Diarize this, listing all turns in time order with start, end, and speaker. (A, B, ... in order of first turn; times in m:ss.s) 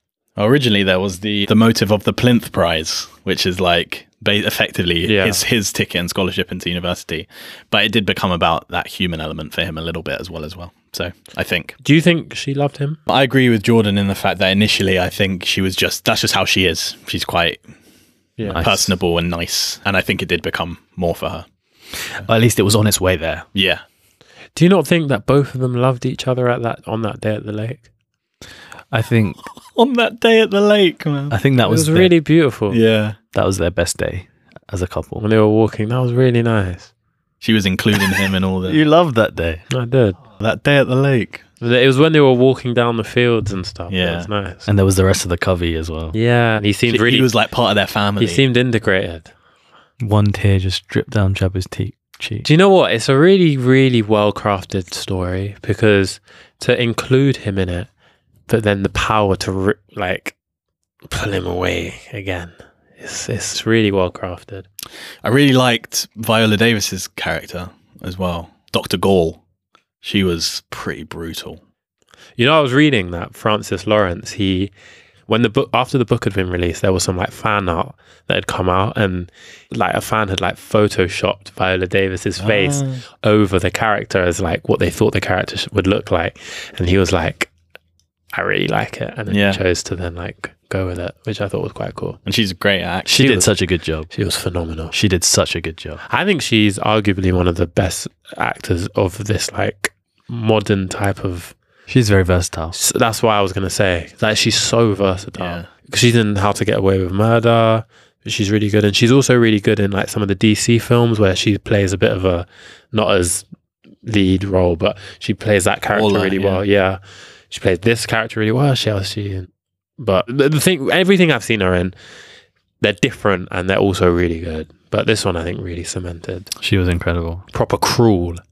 0:00.4-0:11.8 A
0:05.1-0:05.4 B
0:11.8-0:13.0 B
0:13.1-0:17.6 A
0:18.4-0:18.6 B
0:18.4-0:18.9 C
0:18.6-0:21.5 A
0:22.2-0:23.5 C
0:23.5-0:23.8 A
0:24.6-0:27.8 B
0:28.9-0:29.4 C
0:29.6-0:31.4 A
0:31.3-0:32.1 C
0:31.6-0:32.8 B
0:32.7-0:33.2 A
0:33.3-0:35.2 C
0:35.2-0:36.9 B
0:37.4-0:38.8 A
0:38.7-0:39.6 C
0:39.7-0:40.2 B
0:40.4-0:41.4 A
0:41.6-0:44.7 B
0:43.9-0:44.3 A
0:44.7-0:46.2 C
0:46.1-0:47.3 B
0:46.9-0:48.4 A
0:48.2-0:49.3 B
0:50.0-0:52.5 C
0:52.4-0:57.9 B
0:58.5-1:00.3 B
1:01.1-1:04.6 B
1:05.2-1:09.4 A
1:10.0-1:11.6 A
1:12.4-1:14.7 B
1:15.3-1:27.5 B
1:22.4-1:23.0 A
1:28.3-1:32.2 B
1:29.3-1:29.6 A
1:32.2-1:33.4 A
1:33.1-1:34.1 C
1:33.2-1:33.5 B
1:34.1-1:35.0 B
1:34.9-1:36.0 C
1:36.1-1:41.6 B
1:41.9-1:42.8 C
1:42.7-1:53.5 B
1:45.4-1:45.7 A
1:54.0-1:57.0 B
1:55.9-1:56.6 A
1:57.5-2:01.9 B
2:02.8-2:06.5 B
2:06.6-2:07.4 C
2:07.5-2:08.4 B